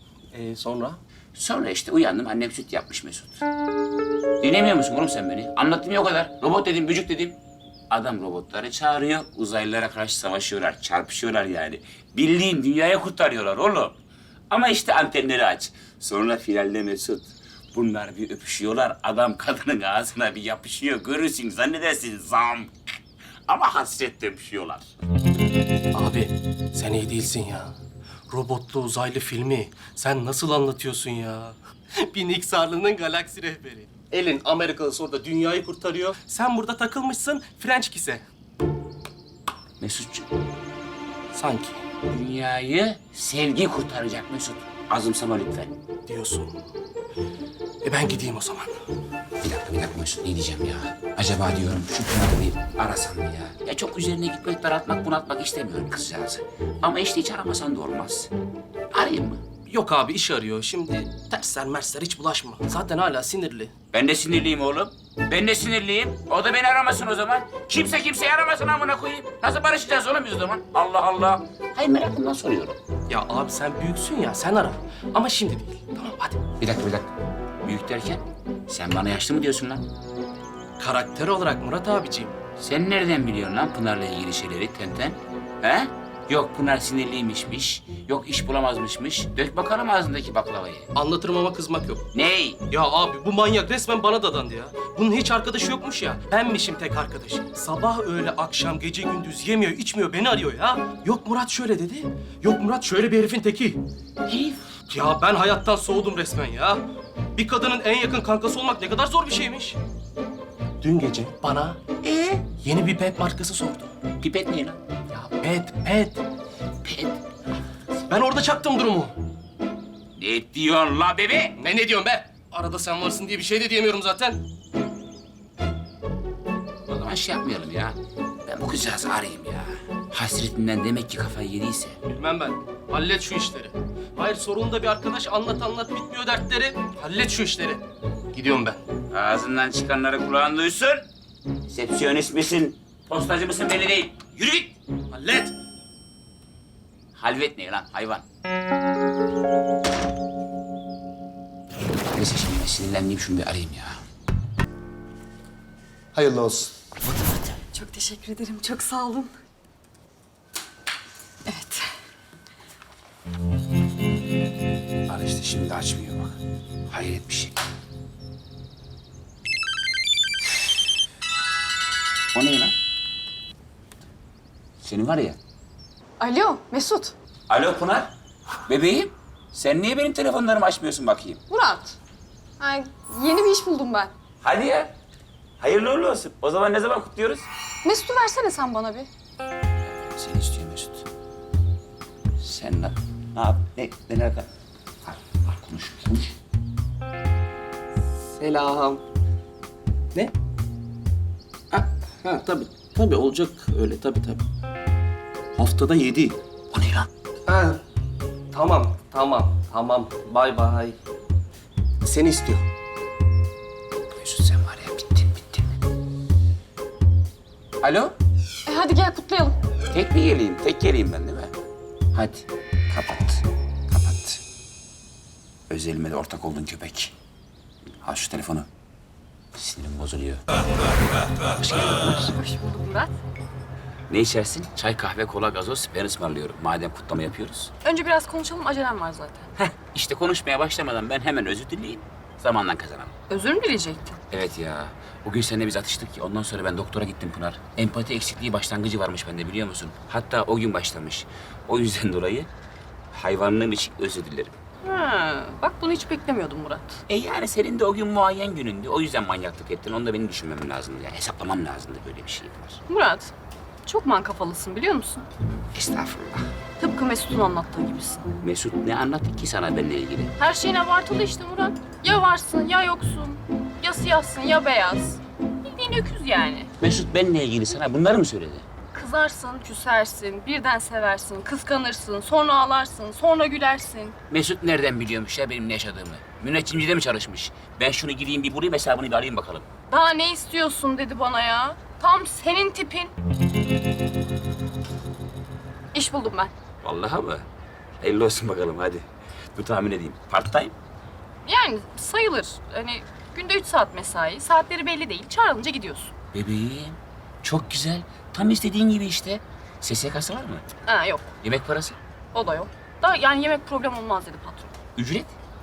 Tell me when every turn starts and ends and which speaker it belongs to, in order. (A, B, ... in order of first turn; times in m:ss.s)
0:00.3-0:01.0 A
0:01.4-0:03.4 B
0:04.4-0:07.4 B
0:07.9-0:14.0 B
0:14.5-0:22.8 B
0:23.5-0:24.9 B
0:25.9-0:27.8 A
0:28.3-0:38.2 A
0:39.8-0:40.3 B
0:41.3-0:41.8 A
0:42.0-0:45.8 B
0:46.1-0:46.7 A
0:47.8-0:48.8 A
0:49.4-0:58.3 B
0:58.9-0:59.4 B
0:59.7-1:03.7 A
1:03.9-1:12.8 B
1:13.1-1:16.4 A
1:16.6-1:17.1 B
1:17.6-1:19.9 B
1:20.8-1:22.4 A
1:22.6-1:30.9 B
1:30.9-1:32.1 A
1:32.1-1:32.6 B
1:32.7-1:43.8 A
1:44.3-1:44.8 B
1:44.9-1:46.8 A
1:47.4-1:49.8 A
1:50.8-1:53.9 A
1:54.2-1:54.8 B
1:55.1-1:56.2 A
1:56.8-1:57.2 B
1:58.1-1:59.1 A
2:00.2-2:01.6 B
2:01.6-2:04.4 A
2:06.9-2:12.0 B
2:12.1-2:18.8 A
2:19.1-2:21.1 B
2:21.7-2:24.8 B
2:25.1-2:25.6 A
2:27.2-2:28.2 B
2:32.1-2:34.0 B
2:36.2-2:36.6 A
2:37.6-2:39.4 C
2:41.5-2:41.9 C
2:45.1-2:46.4 B
2:46.9-2:47.6 B
2:52.3-2:52.7 B
2:54.8-2:55.4 B
2:56.2-2:57.2 C
2:57.5-2:58.1 B
2:58.7-3:01.4 B
3:01.5-3:02.0 C
3:02.6-3:04.1 C
3:04.4-3:04.9 B
3:05.6-3:07.5 B
3:07.8-3:09.1 C
3:09.8-3:11.1 B
3:12.4-3:14.5 B
3:15.1-3:16.3 B
3:18.3-3:19.0 A
3:21.7-3:24.4 A
3:25.6-3:26.4 A
3:26.7-3:27.1 B
3:27.5-3:27.8 A
3:28.5-3:31.0 A
3:32.0-3:32.6 A
3:34.1-3:35.7 B
3:37.8-3:38.1 B
3:38.7-3:39.6 C
3:39.9-3:41.5 B
3:42.1-3:44.4 B
3:45.7-3:47.1 B
3:48.0-3:48.7 B
3:49.5-3:50.4 B
3:51.7-3:52.2 B
3:51.7-3:53.1 C
3:54.1-3:57.7 B
3:57.8-3:59.5 C
3:59.6-4:03.1 B
4:03.3-4:04.2 C
4:04.3-4:12.5 B
4:13.1-4:14.5 B
4:14.8-4:17.0 C
4:17.1-4:22.8 B
4:22.9-4:23.3 C
4:23.8-4:25.3 C
4:25.7-4:26.5 B
4:26.8-4:28.3 C
4:28.4-4:30.3 B
4:30.4-4:36.7 C
4:36.8-4:38.7 B
4:38.9-4:44.2 C
4:44.3-4:49.7 B
4:49.9-4:53.1 C
4:55.9-4:56.5 C
4:56.8-4:57.5 B
4:58.0-5:00.8 B
5:01.4-5:06.1 C
5:06.3-5:10.7 B
5:10.9-5:11.3 C
5:11.4-5:12.0 B
5:12.3-5:14.7 C
5:15.0-5:15.3 B